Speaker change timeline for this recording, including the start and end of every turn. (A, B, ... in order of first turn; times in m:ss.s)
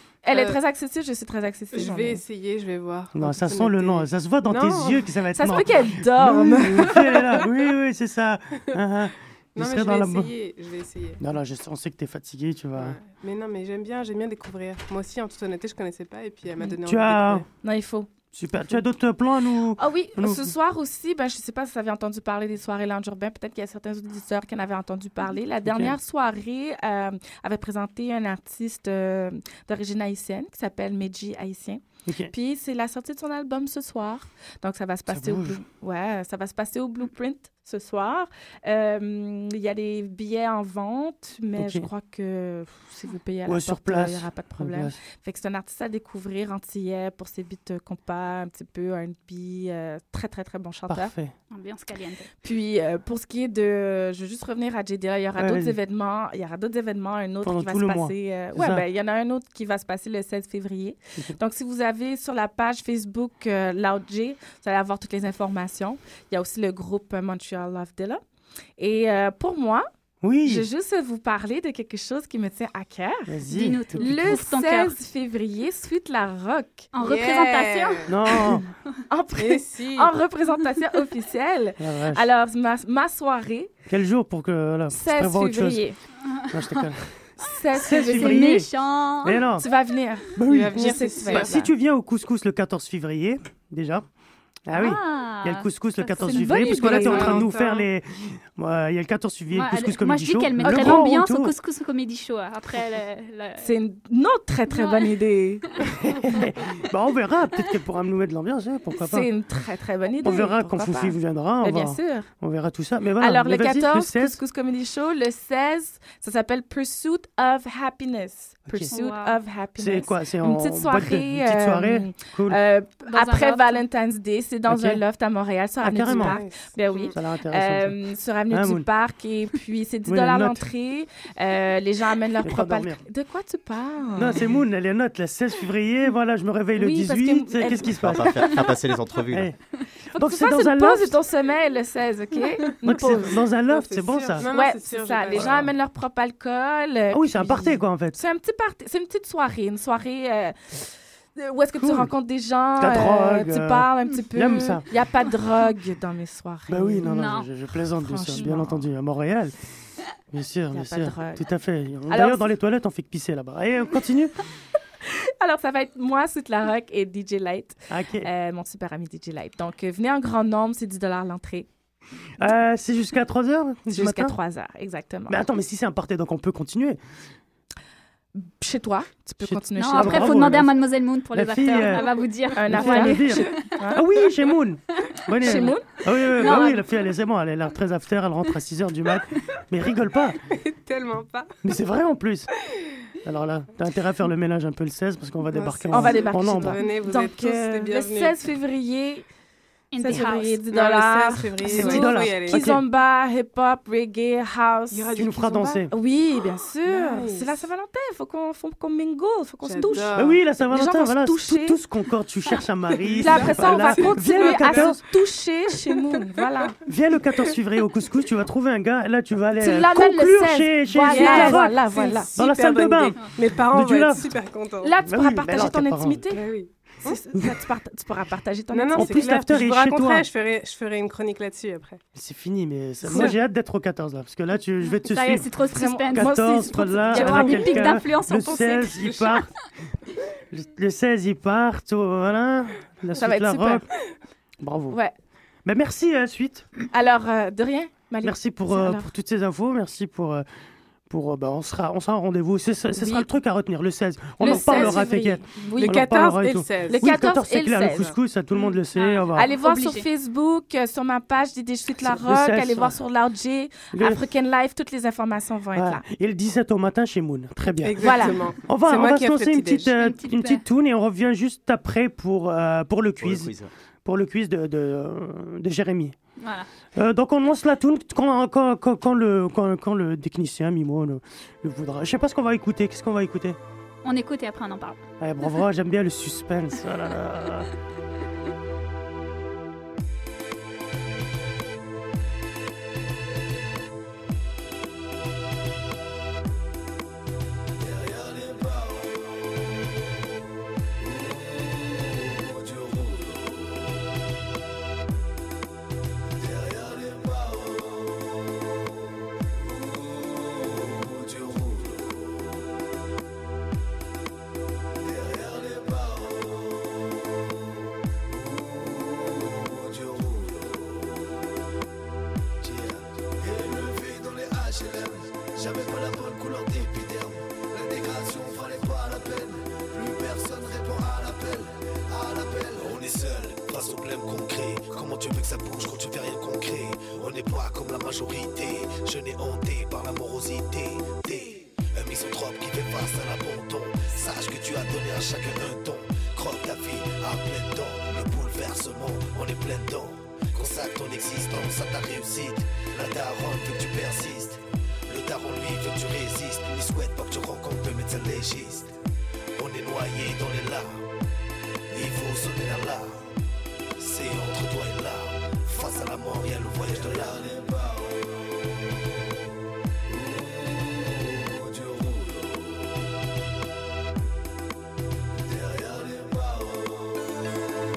0:00.2-0:02.2 A
0:00.3-0:00.6 B
0:01.7-0:05.0 B
0:03.1-0:10.3 C
0:05.3-0:07.3 A
0:09.6-0:11.2 B
0:11.2-0:13.0 C
0:12.8-0:17.5 B
0:16.8-0:17.5 C
0:17.6-0:18.1 A
0:18.3-0:20.5 C
0:19.8-0:51.1 A
0:25.6-0:26.0 C
0:32.1-0:32.3 C
0:35.1-0:35.6 C
0:41.6-0:41.9 C
0:43.5-0:45.0 C
0:50.9-0:51.4 C
0:51.5-0:52.3 D
0:52.4-1:08.2 A
0:55.4-0:55.8 C
0:57.4-0:58.8 C
1:08.8-1:09.9 A
1:10.2-1:10.7 C
1:10.4-1:13.4 A
1:13.3-1:14.3 C
1:13.5-1:15.0 D
1:14.0-1:16.9 A
1:16.9-1:18.1 D
1:17.0-1:18.1 B
1:18.1-1:18.6 C
1:19.1-1:23.7 A
1:19.4-1:20.2 B
1:21.8-1:22.2 C
1:23.9-1:25.8 C
1:24.9-1:26.0 A
1:26.3-1:26.9 D
1:26.5-1:27.2 C
1:27.4-1:28.6 A
1:27.7-1:28.7 C
1:27.8-1:29.5 D
1:29.2-1:29.7 C
1:29.6-1:31.7 A
1:30.4-1:34.1 C
1:30.4-1:31.6 B
1:34.7-1:41.5 C
1:34.7-1:37.4 D
1:36.2-1:37.6 A
1:37.0-1:37.6 B
1:39.5-1:43.7 D
1:40.6-1:41.1 A
1:43.6-1:45.7 A
1:44.7-1:45.1 D
1:46.0-1:49.3 C
1:49.0-1:52.3 A
1:50.2-1:54.4 C
1:53.2-2:14.5 A
1:58.9-1:59.4 D
1:59.8-2:02.6 C
2:03.0-2:03.8 D
2:04.6-2:05.0 C
2:05.8-2:06.4 C
2:06.1-2:07.1 B
2:07.1-2:08.0 C
2:08.5-2:08.9 C
2:10.1-2:10.7 C
2:12.4-2:13.0 C
2:14.2-2:18.6 C
2:16.8-2:18.9 A
2:18.0-2:19.5 E
2:19.3-2:19.6 C
2:20.1-2:21.2 C
2:20.2-2:23.4 A
2:22.8-2:24.5 C
2:23.7-2:25.7 B
2:24.4-2:37.1 A
2:25.3-2:25.7 C
2:27.1-2:28.2 C
2:31.8-2:32.1 C
2:32.8-2:34.9 C
2:36.7-2:39.6 C
2:37.0-2:37.5 D
2:37.9-2:38.8 A
2:40.3-2:44.4 C
2:40.7-2:41.5 A
2:42.1-2:42.5 A
2:45.4-2:51.7 A
2:47.9-2:48.3 C
2:52.4-2:54.4 C
2:53.9-2:55.4 A
2:55.3-2:57.0 C
2:58.4-3:00.6 A
2:59.4-3:00.8 C
2:59.8-3:03.7 D
3:01.3-3:10.4 C
3:02.6-3:04.1 A
3:05.4-3:05.9 A
3:05.4-3:05.7 D
3:06.3-3:06.9 D
3:10.5-3:11.5 B
3:11.6-3:12.5 C
3:13.2-3:16.8 C
3:15.5-3:18.4 B
3:15.9-3:19.2 A
3:19.9-3:20.6 D
3:20.0-3:31.8 A
3:20.1-3:22.8 B
3:21.6-3:22.8 C
3:24.9-3:25.8 B
3:25.2-3:25.9 C
3:26.9-3:27.6 B
3:29.6-3:30.4 B
3:30.2-3:35.0 C
3:33.0-3:35.0 B
3:33.1-3:36.8 A
3:35.9-3:36.5 B
3:36.8-3:44.3 C
3:39.6-3:42.4 A
3:41.0-3:44.9 B
3:44.8-3:49.5 A
3:45.0-3:46.3 C
3:46.3-3:47.2 B
3:48.7-3:52.0 B
3:48.9-3:50.3 C
3:52.2-3:55.5 C
3:53.0-3:53.4 B
3:54.9-3:59.4 D
3:55.7-3:58.0 A
3:56.1-3:59.5 C
3:58.6-3:59.4 B
4:00.5-4:03.8 C
4:03.2-4:03.8 A
4:04.6-4:05.0 C
4:04.9-4:05.2 A
4:05.6-4:06.7 C
4:06.9-4:09.1 A
4:08.2-4:10.5 C
4:11.1-4:19.5 C
4:12.9-4:13.3 A
4:14.4-4:18.2 A
4:14.5-4:15.0 B
4:15.7-4:17.2 B
4:18.9-4:20.1 D
4:19.3-4:26.0 A
4:22.0-4:23.0 C
4:23.9-4:24.2 C
4:25.8-4:33.5 C
4:27.8-4:29.9 B
4:28.0-4:28.5 A
4:29.9-4:30.6 D
4:33.2-4:33.7 E
4:34.0-4:36.2 C
4:36.4-4:36.7 D
4:36.9-4:43.6 C
4:44.0-4:45.0 D
4:45.2-4:47.7 C
4:57.8-4:59.6 F
5:01.0-5:04.0 F
5:06.3-5:08.2 F
5:09.6-5:12.5 F
5:15.0-5:17.1 F
5:18.3-5:21.3 F
5:22.6-5:58.9 F
5:59.6-6:01.1 F
6:01.9-6:03.3 F
6:04.0-6:08.7 F
6:10.1-6:13.0 F
6:15.4-6:17.4 F